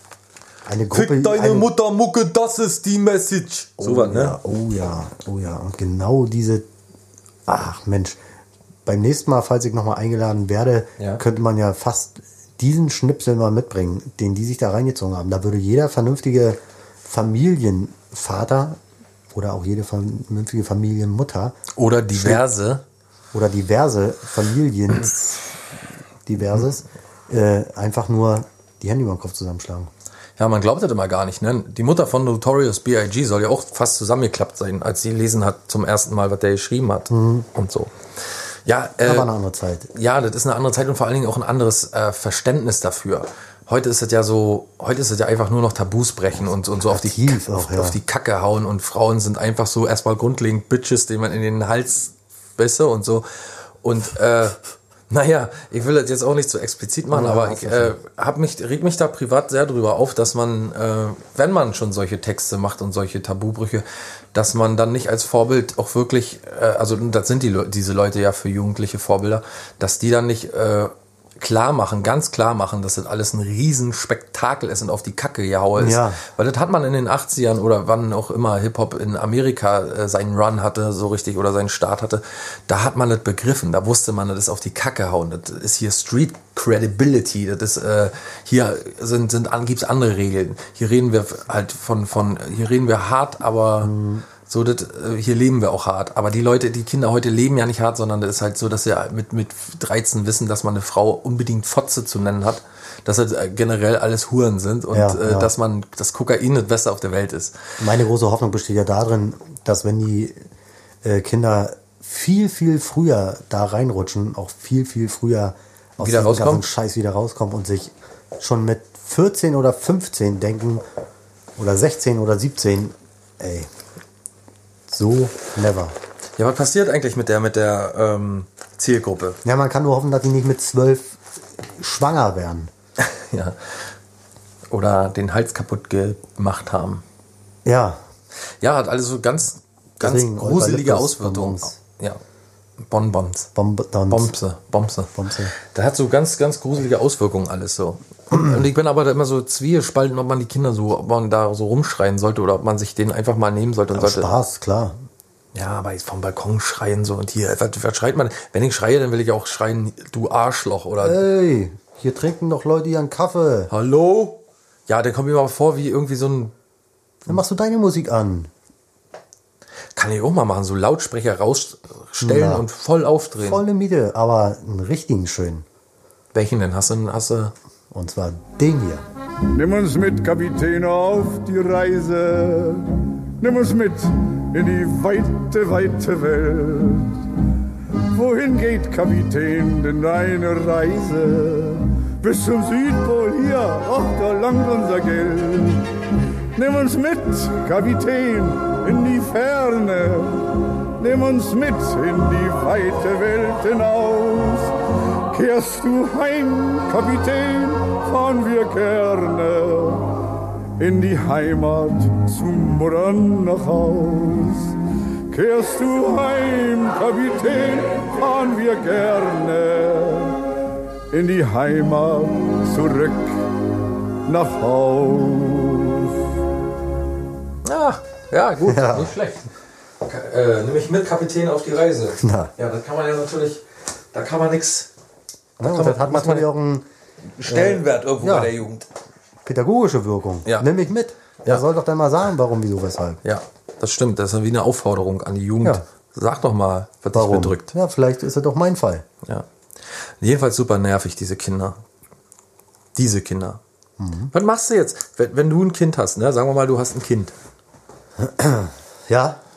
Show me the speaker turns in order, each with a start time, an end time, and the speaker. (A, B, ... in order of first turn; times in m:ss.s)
0:00.7-0:01.7 A
0:00.9-0:04.4 B
0:03.8-0:06.7 A
0:07.5-0:08.2 A
0:08.8-0:18.8 A
0:19.3-0:21.6 A
0:21.8-0:22.8 B
0:22.1-0:22.4 A
0:23.3-0:25.6 A
0:26.3-0:29.9 A
0:30.4-0:39.3 B
0:37.1-0:37.5 A
0:39.0-0:39.9 A
0:39.9-0:54.6 B
0:46.8-0:48.0 A
0:55.1-1:33.9 B
0:57.1-0:58.0 A
1:15.8-1:16.2 A
1:33.8-1:34.3 A
1:34.4-1:47.8 B
1:44.9-1:45.5 A
1:47.8-1:50.5 A
1:51.0-2:00.8 A
1:56.0-1:56.7 B
2:01.6-2:03.7 A
2:04.9-2:06.0 A
2:06.4-2:09.4 B
2:09.4-2:12.7 A
2:13.0-2:13.9 B
2:14.7-2:17.0 B
2:17.6-2:18.0 A
2:18.6-2:22.2 B
2:20.0-2:21.8 A
2:22.8-2:23.5 B
2:23.6-2:24.3 A
2:24.1-2:34.3 B
2:25.1-2:25.5 A
2:28.3-2:28.7 A
2:33.9-2:35.0 A
2:35.5-2:41.2 B
2:41.0-2:43.7 A
2:43.7-2:46.5 B
2:47.3-2:48.5 A
2:50.0-2:53.6 B
2:52.2-2:52.7 A
2:53.4-2:55.7 A
2:56.3-2:57.5 B
2:57.9-2:59.1 A
2:59.5-3:07.2 C
3:08.1-3:15.9 C
3:16.6-3:20.5 C
3:21.0-3:24.7 C
3:25.3-3:30.1 C
3:30.8-3:34.7 C
3:35.3-3:40.4 C
3:41.1-3:43.4 C
3:44.3-3:46.1 C
3:47.6-3:54.9 B
3:48.6-3:49.1 A
3:52.2-3:52.5 A
3:55.6-3:56.9 A
3:55.6-3:56.5 B
3:57.3-3:58.9 B
3:57.5-3:58.6 A
3:59.4-4:03.2 A
4:03.2-4:07.7 B
4:07.1-4:09.1 A
4:09.2-4:11.8 B
4:13.0-4:13.6 B
4:14.0-4:14.3 A
4:14.3-4:17.3 B
4:18.2-4:19.4 A